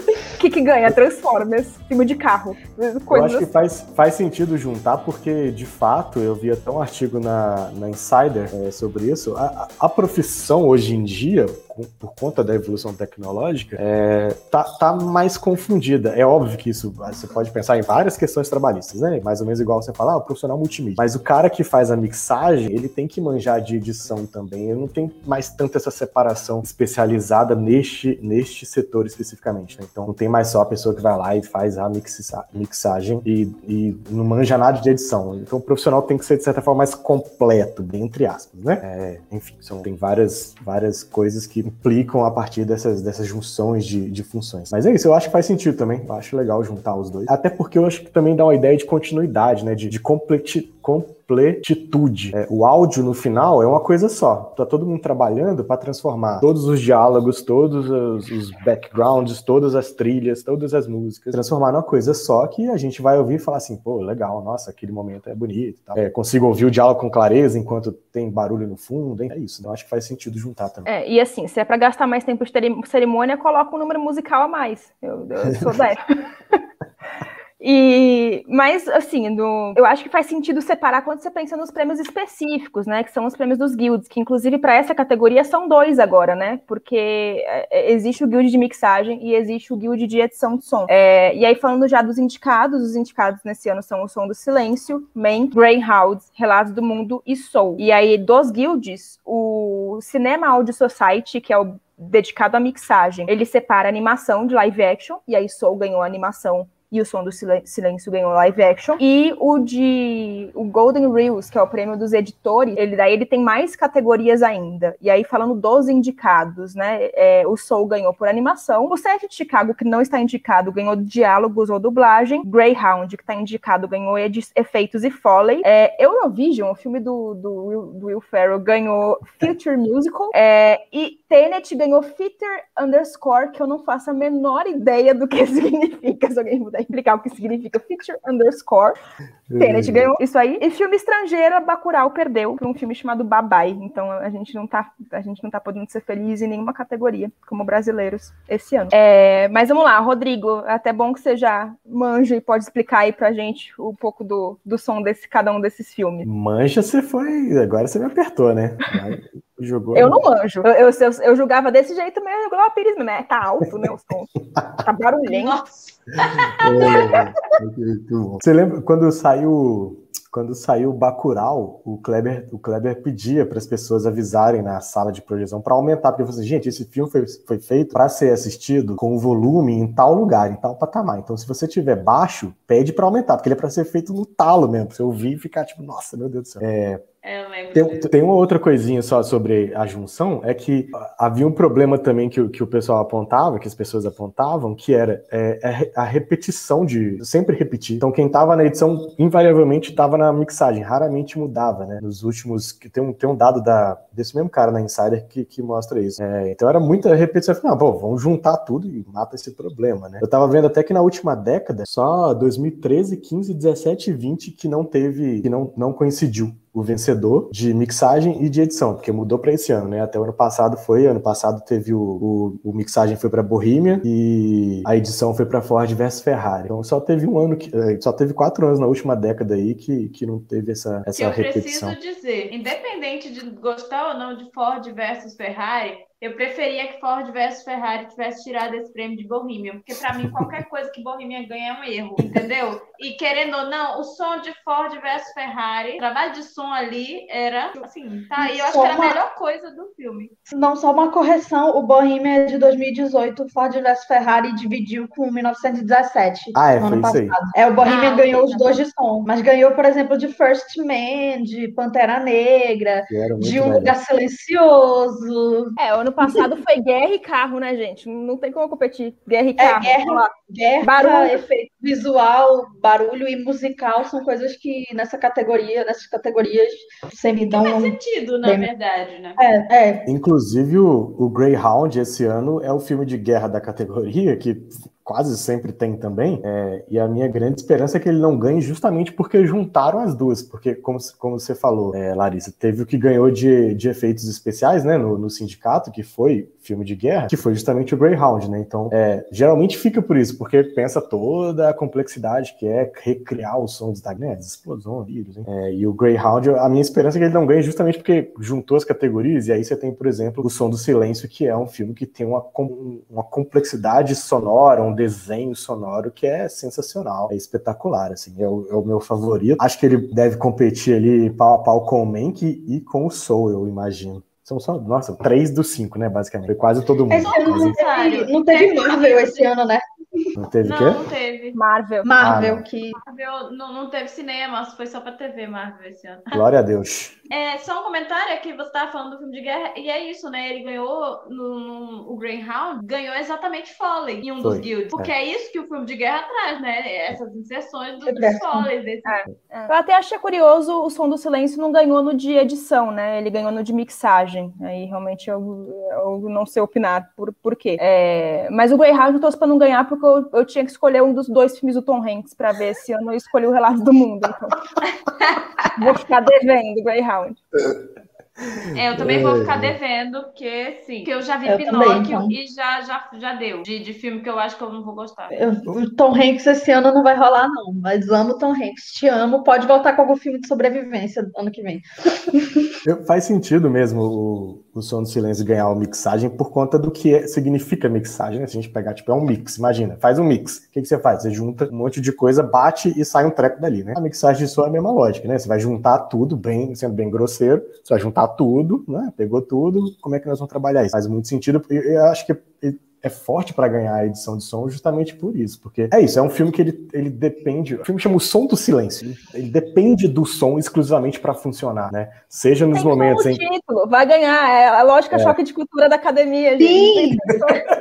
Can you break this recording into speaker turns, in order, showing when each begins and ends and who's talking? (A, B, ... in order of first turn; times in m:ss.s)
0:00.4-0:03.5 A
0:03.1-1:10.9 B
1:10.9-1:16.0 A
1:17.6-2:19.0 A
2:19.5-2:20.2 B
2:19.6-2:36.3 A
2:36.2-2:40.2 B
2:39.9-2:44.3 A
2:44.6-2:44.8 B
2:44.8-2:45.6 A
2:45.3-2:47.1 C
2:46.6-3:07.0 B
2:46.8-2:47.2 A
3:07.2-3:08.1 C
3:07.7-3:52.0 B
3:51.2-4:10.4 C
4:08.4-4:09.2 D
4:10.5-4:26.5 D
4:16.6-4:17.9 B
4:17.8-4:18.8 C
4:23.1-4:24.0 B
4:25.8-4:30.3 A
4:29.6-4:38.7 D
4:30.8-4:31.4 A
4:37.5-4:39.4 C
4:39.4-4:40.1 D
4:40.1-5:27.8 B
5:27.1-5:30.2 D
5:27.3-5:29.5 C
5:30.4-5:31.0 B
5:30.6-5:31.6 C
5:31.6-5:32.1 A
5:32.0-5:33.0 D
5:32.2-5:32.6 B
5:33.0-5:36.4 C
5:36.3-5:37.2 B
5:37.3-5:49.2 C
5:44.4-5:45.1 B
5:48.1-5:48.7 D
5:49.1-6:04.6 A
6:04.8-6:05.9 C
6:05.8-6:07.4 A
6:08.7-6:09.8 B
6:08.7-6:15.4 C
6:11.5-6:12.4 D
6:15.3-6:22.7 D
6:22.8-6:53.4 B
6:52.7-6:57.7 A
6:55.1-6:55.4 B
6:56.6-6:57.3 D